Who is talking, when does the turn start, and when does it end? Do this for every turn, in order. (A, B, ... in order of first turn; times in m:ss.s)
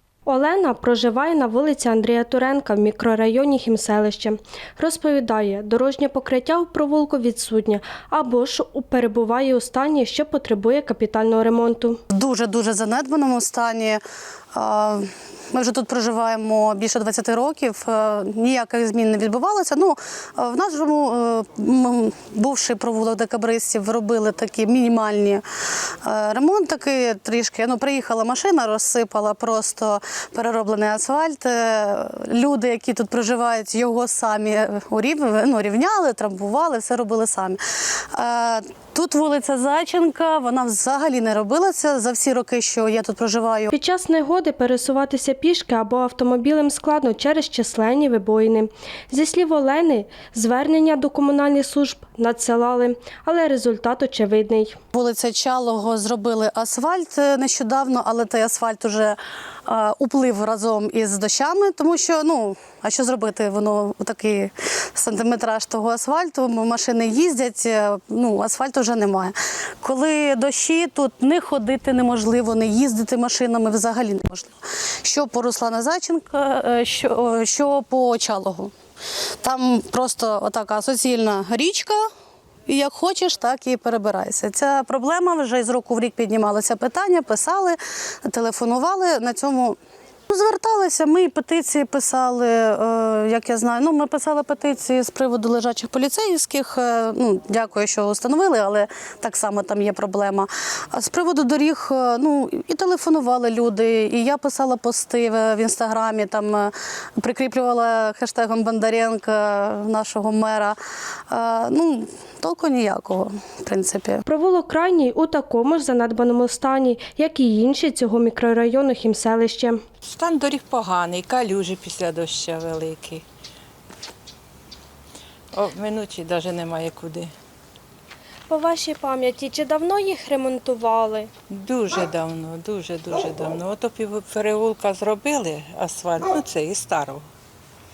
0:00.3-0:12.0 A
0:12.1-0:14.0 B
0:14.5-0:25.4 B
0:26.0-0:37.6 B
0:38.1-0:43.7 B
0:43.7-0:54.8 A
0:54.9-1:18.7 B
1:19.4-1:22.1 B
1:22.7-1:29.8 B
1:30.3-1:50.8 B
1:51.3-1:54.2 B
1:54.2-1:59.8 A
2:00.0-2:03.2 C
2:05.5-2:07.3 C
2:08.5-2:11.3 A
2:11.5-2:17.3 C